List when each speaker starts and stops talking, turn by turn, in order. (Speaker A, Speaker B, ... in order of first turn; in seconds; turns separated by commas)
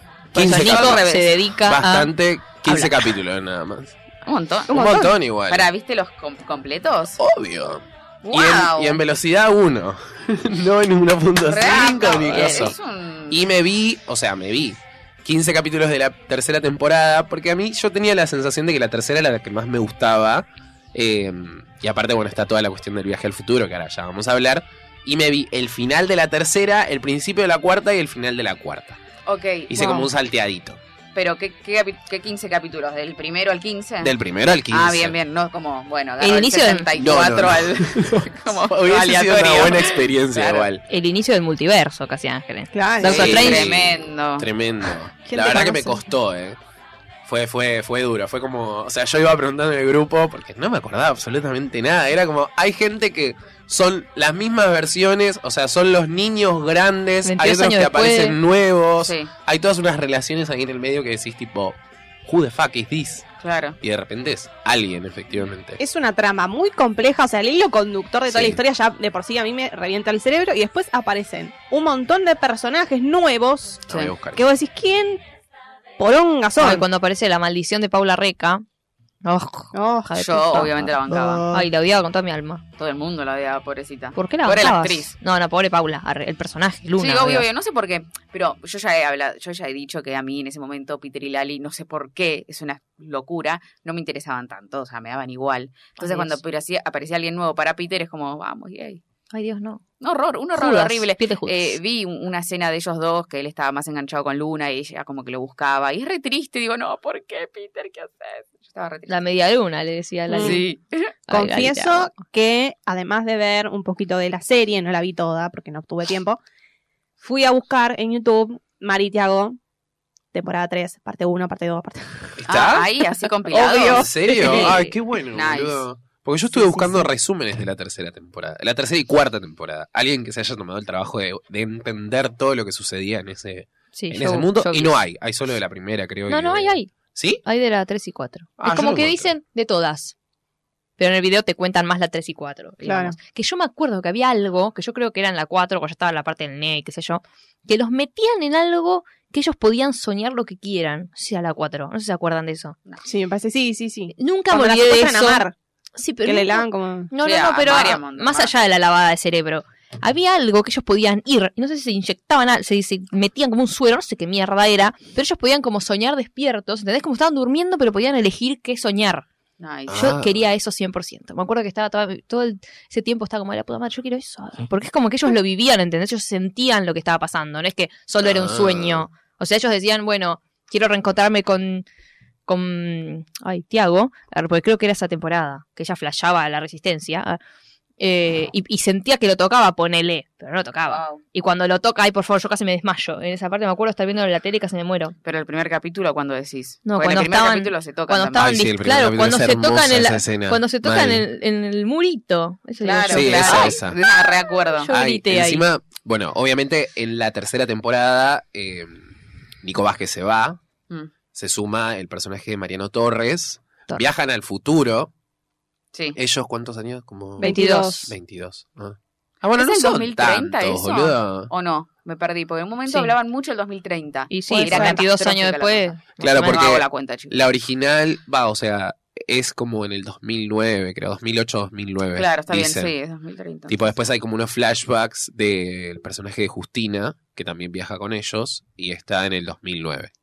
Speaker A: 0.3-1.1, Speaker B: 0.3-2.1, Speaker C: 0.4-1.4, Speaker A: 1.6-4.0, Speaker B: 2.7-2.9, Speaker C: 4.2-7.2, Speaker A: 4.7-5.7, Speaker A: 7.2-12.8, Speaker C: 8.2-9.0, Speaker C: 11.5-13.4, Speaker B: 12.2-12.7, Speaker A: 13.3-29.0, Speaker C: 29.3-29.7, Speaker A: 29.7-30.8, Speaker D: 29.8-30.1, Speaker C: 31.1-34.2, Speaker A: 34.0-35.2, Speaker C: 34.7-40.7, Speaker B: 36.2-36.9, Speaker A: 37.0-40.8, Speaker B: 40.9-43.7, Speaker D: 42.7-43.4, Speaker C: 43.0-44.5, Speaker A: 43.1-46.6, Speaker D: 45.3-46.0, Speaker A: 47.3-63.3, Speaker B: 57.2-58.4, Speaker C: 59.0-59.3, Speaker C: 63.4-63.8, Speaker A: 63.8-65.8, Speaker D: 65.8-75.2, Speaker A: 68.3-68.6, Speaker A: 73.9-74.4, Speaker D: 76.0-76.9, Speaker B: 76.6-78.7, Speaker B: 79.2-81.0, Speaker D: 79.7-81.7, Speaker C: 80.2-81.5, Speaker B: 81.5-82.6, Speaker C: 82.8-85.2, Speaker B: 84.2-87.5, Speaker C: 87.0-99.0, Speaker B: 96.0-96.4, Speaker B: 99.3-99.8, Speaker C: 100.0-109.2, Speaker B: 100.5-101.8, Speaker B: 109.1-110.7, Speaker D: 110.3-110.6, Speaker C: 110.4-111.1, Speaker B: 111.3-112.1, Speaker D: 111.3-116.4, Speaker D: 117.2-119.6, Speaker D: 120.3-122.4, Speaker A: 122.4-122.9, Speaker C: 122.5-124.6, Speaker D: 123.5-124.8, Speaker A: 123.6-137.4, Speaker B: 124.4-124.9, Speaker C: 125.3-125.8, Speaker D: 126.6-126.9, Speaker B: 133.9-135.0, Speaker B: 136.3-136.9, Speaker B: 137.4-140.2, Speaker A: 138.6-139.3, Speaker B: 141.0-152.8, Speaker D: 142.8-143.2, Speaker D: 153.1-155.6, Speaker B: 154.2-155.4, Speaker B: 156.0-169.3, Speaker D: 156.2-157.1, Speaker C: 157.2-158.5, Speaker C: 169.6-170.1, Speaker A: 169.9-170.4, Speaker B: 169.9-181.8, Speaker A: 178.2-179.1, Speaker B: 182.5-187.4, Speaker B: 188.0-195.2, Speaker C: 190.9-191.2, Speaker C: 195.2-198.6, Speaker B: 196.9-203.8, Speaker A: 198.4-201.2, Speaker C: 202.8-204.9, Speaker A: 203.1-204.0, Speaker B: 204.8-205.7, Speaker A: 204.9-209.0, Speaker A: 209.6-210.6, Speaker A: 211.3-215.1, Speaker A: 216.2-221.5, Speaker D: 217.4-218.1, Speaker B: 217.4-218.1, Speaker C: 219.6-227.4, Speaker B: 222.9-223.1, Speaker B: 224.3-226.7, Speaker D: 224.5-225.1, Speaker A: 226.2-232.9, Speaker C: 232.2-233.9, Speaker A: 233.7-240.1